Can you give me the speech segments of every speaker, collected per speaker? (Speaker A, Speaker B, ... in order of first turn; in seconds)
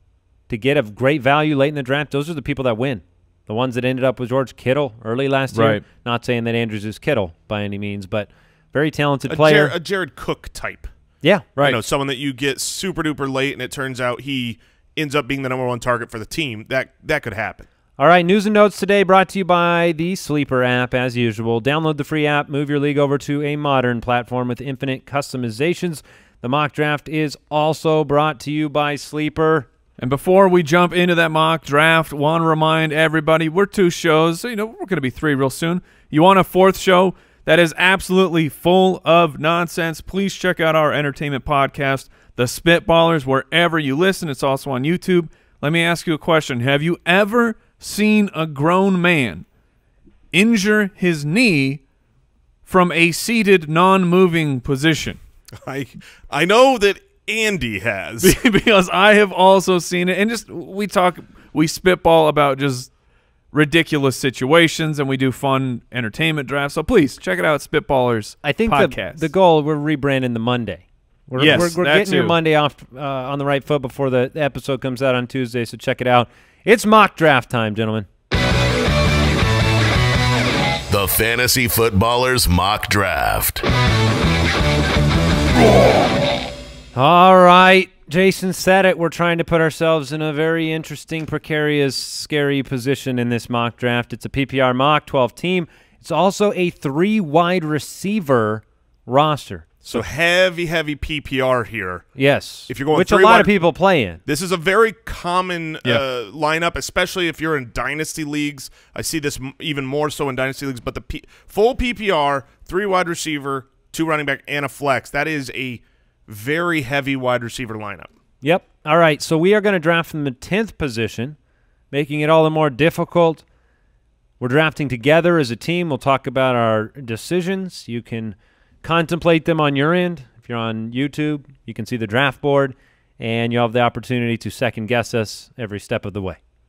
Speaker A: 0.5-9.8, 11.2-11.5, 18.0-29.7, 68.4-78.1, 87.0-100.0, 102.2-104.2, 118.4-121.4, 121.9-123.4, 124.4-136.4
Speaker B: 5.5-5.8, 30.0-49.5, 50.3-51.8, 52.7-55.2, 58.2-62.9, 63.5-69.3, 71.4-72.4
Speaker C: 9.3-10.9, 11.6-17.7, 55.6-58.4, 99.8-102.1, 102.7-103.6, 104.3-118.1
Speaker D: 80.9-83.7